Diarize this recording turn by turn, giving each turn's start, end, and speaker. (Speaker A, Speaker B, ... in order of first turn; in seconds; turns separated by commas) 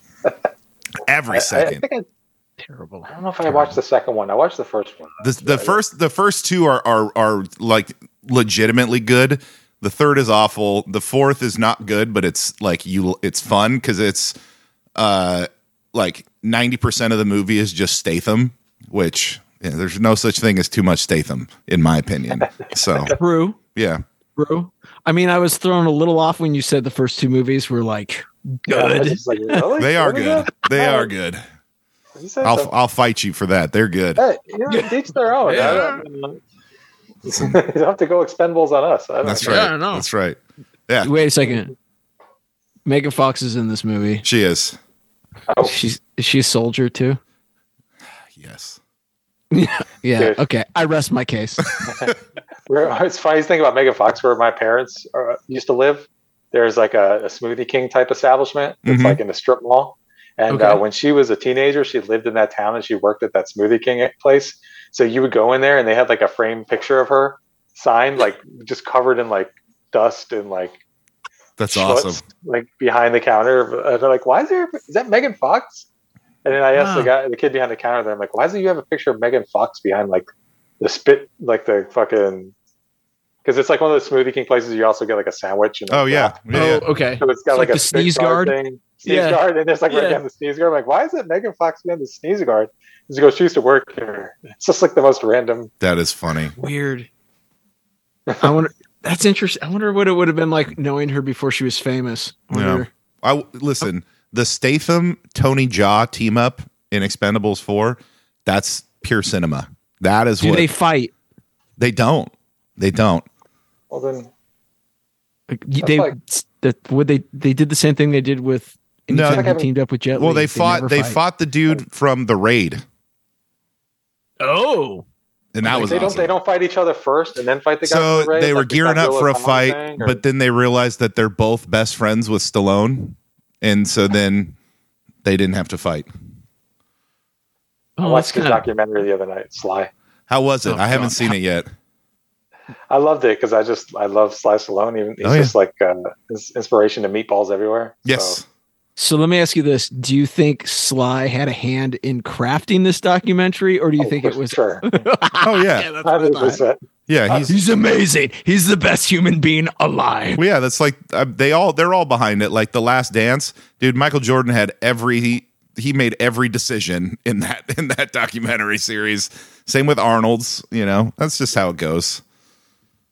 Speaker A: 1.0-1.9, Speaker B: 1.3-2.1, Speaker C: 2.6-3.8, Speaker B: 3.1-5.8, Speaker A: 5.2-14.4, Speaker A: 15.0-23.2, Speaker C: 23.2-23.6, Speaker A: 23.8-24.0, Speaker C: 24.4-29.6, Speaker B: 28.7-31.1, Speaker A: 29.8-31.4, Speaker B: 32.2-32.7, Speaker A: 32.4-34.2, Speaker B: 34.2-36.4, Speaker C: 34.7-36.0, Speaker B: 37.3-39.7, Speaker A: 39.2-41.1, Speaker C: 39.4-40.1, Speaker C: 41.0-41.7, Speaker C: 42.9-44.2, Speaker A: 44.2-44.8, Speaker B: 45.5-45.8, Speaker C: 45.6-47.2, Speaker A: 48.3-48.8, Speaker C: 49.5-51.6, Speaker A: 51.7-52.1, Speaker B: 52.7-70.8, Speaker A: 58.9-59.2, Speaker C: 60.5-60.8, Speaker A: 71.6-72.2, Speaker B: 71.7-75.9, Speaker B: 76.5-80.3, Speaker C: 76.7-77.1, Speaker B: 80.8-82.5, Speaker B: 83.5-95.7, Speaker A: 85.9-86.8, Speaker C: 86.5-90.2, Speaker A: 95.8-96.5, Speaker C: 96.6-97.1, Speaker C: 98.4-102.9, Speaker A: 102.5-110.7, Speaker C: 110.4-111.1, Speaker A: 111.8-113.3, Speaker B: 113.9-114.3, Speaker C: 115.5-121.2, Speaker B: 115.8-116.2, Speaker A: 119.1-119.5, Speaker B: 119.3-119.7, Speaker A: 120.1-122.8, Speaker C: 124.4-125.0, Speaker A: 125.5-126.3, Speaker C: 125.6-126.2, Speaker B: 125.8-130.2, Speaker A: 127.8-134.6, Speaker A: 135.2-136.1, Speaker C: 138.0-138.6, Speaker B: 138.0-139.9, Speaker A: 140.3-141.7, Speaker C: 140.7-141.3, Speaker B: 142.9-148.4, Speaker A: 145.2-145.6, Speaker A: 148.1-148.4, Speaker C: 149.0-156.6, Speaker B: 154.0-154.9, Speaker A: 155.4-155.9, Speaker B: 156.0-157.5, Speaker A: 157.1-157.5, Speaker C: 157.5-160.4, Speaker A: 160.3-172.2